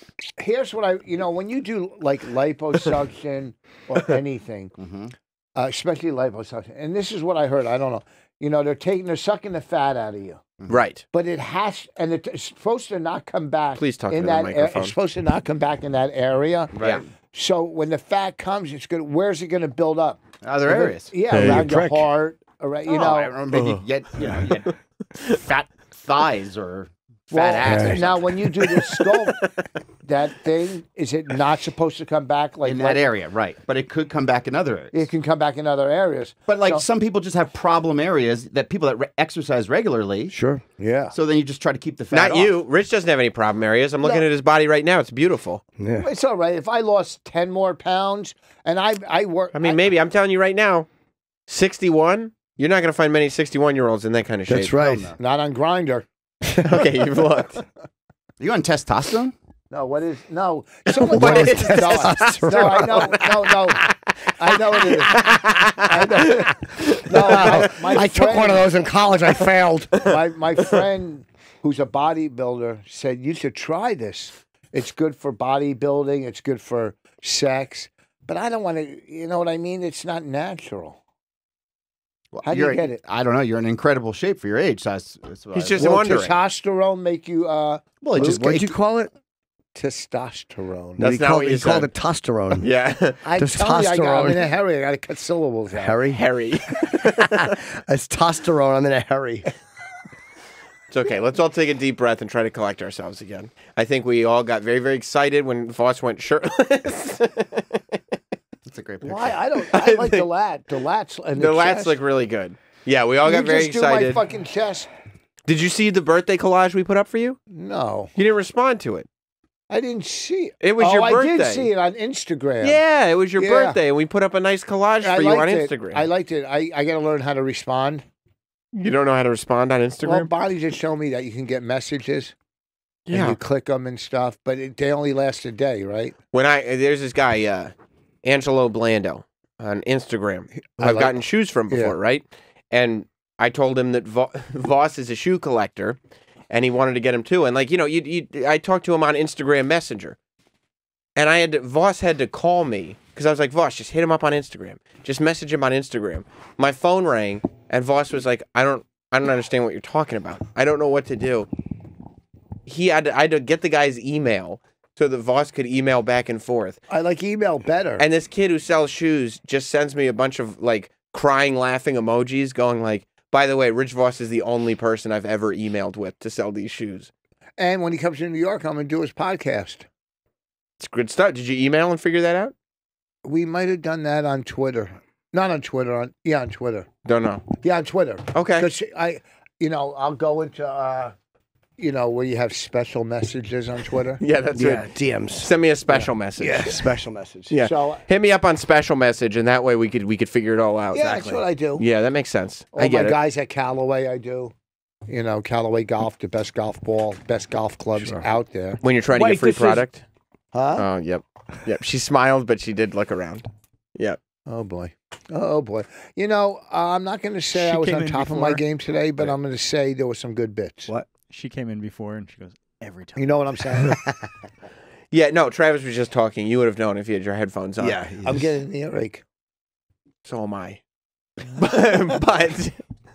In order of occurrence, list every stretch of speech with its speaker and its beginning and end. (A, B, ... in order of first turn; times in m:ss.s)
0:00.4-0:04.7 A
0:04.8-0:05.1 B
0:05.6-0:10.4 A
0:10.7-0:11.0 C
0:11.1-0:16.7 A
0:13.8-0:14.9 C
0:16.8-0:17.1 B
0:17.3-0:23.4 A
0:20.4-0:21.2 B
0:21.3-0:22.0 D
0:22.8-0:24.7 B
0:23.5-0:24.5 D
0:25.3-0:27.9 B
0:27.3-0:29.4 A
0:27.3-0:28.7 C
0:27.6-0:28.0 D
0:30.0-0:33.1 A
0:32.6-0:35.0 B
0:34.9-0:36.8 A
0:36.5-0:40.3 B
0:40.3-0:40.6 D
0:40.8-0:41.2 A
0:41.1-0:42.6 B
0:42.1-0:45.6 C
0:44.0-0:44.3 A
0:45.8-0:46.1 D
0:46.0-0:49.8 A
0:49.5-0:50.9 C
0:51.5-0:54.8 C
0:54.5-0:55.1 D
0:54.8-0:55.2 B
0:55.2-0:56.1 A
0:56.6-0:57.6 C
0:58.4-0:59.3 B
0:59.7-1:03.8 A
1:00.9-1:07.6 C
1:01.1-1:03.0 D
1:04.4-1:05.3 A
1:05.8-1:08.7 A
1:07.2-1:10.1 D
1:10.0-1:21.0 A
1:22.3-1:26.3 B
1:22.4-1:23.0 A
1:25.5-1:26.3 C
1:25.8-1:29.1 A
1:28.0-1:28.8 B
1:28.2-1:28.7 D
1:29.7-1:31.0 A
1:31.0-1:32.7 D
1:31.0-1:31.9 C
1:32.6-1:33.2 C
1:33.2-1:36.0 A
1:33.3-1:34.4 D
1:35.7-1:36.2 D
1:36.1-1:37.5 C
1:37.9-1:39.5 D
1:40.9-1:47.8 C
1:48.6-1:49.5 B
1:49.0-1:52.0 A
1:49.7-1:50.3 C
1:51.4-1:54.2 C
1:53.2-1:54.9 A
1:55.5-1:57.4 C
1:57.5-1:58.1 A
1:58.1-1:59.1 C
1:59.7-2:02.8 A
2:00.6-2:01.7 C
2:02.6-2:06.0 C
2:03.4-2:03.8 A
2:05.0-2:08.0 A
2:08.7-2:10.3 C
2:10.0-2:12.3 A
2:13.1-2:13.4 C
2:13.1-2:16.1 A
2:16.3-2:17.7 C
2:18.2-2:26.0 C
2:20.8-2:21.2 A
2:21.7-2:22.0 A
2:26.5-2:30.2 C
2:31.2-2:41.5 C
2:42.6-2:46.8 C
2:46.9-2:48.0 A
2:48.0-2:57.1 C
2:57.6-2:59.9 A
3:00.8-3:02.5 C
3:03.2-3:06.9 A
3:07.0-3:07.5 C
3:07.6-3:11.1 A
3:08.3-3:08.7 C
3:11.8-3:14.2 A
3:14.2-3:16.9 C
3:14.5-3:17.5 D
3:17.5-3:23.2 C
3:17.6-3:18.0 A
3:20.9-3:21.8 A
3:22.7-3:24.5 A
3:25.1-3:29.8 A
3:28.8-3:30.0 C
3:30.5-3:30.8 A
3:30.8-3:34.2 C
3:34.4-3:40.9 A
3:37.5-3:38.6 E
3:41.3-3:43.3 E
3:43.2-3:44.3 A
3:45.1-3:48.0 C
3:47.8-3:48.4 D
3:48.2-3:49.2 A
3:50.2-3:50.8 C
3:51.4-3:52.7 C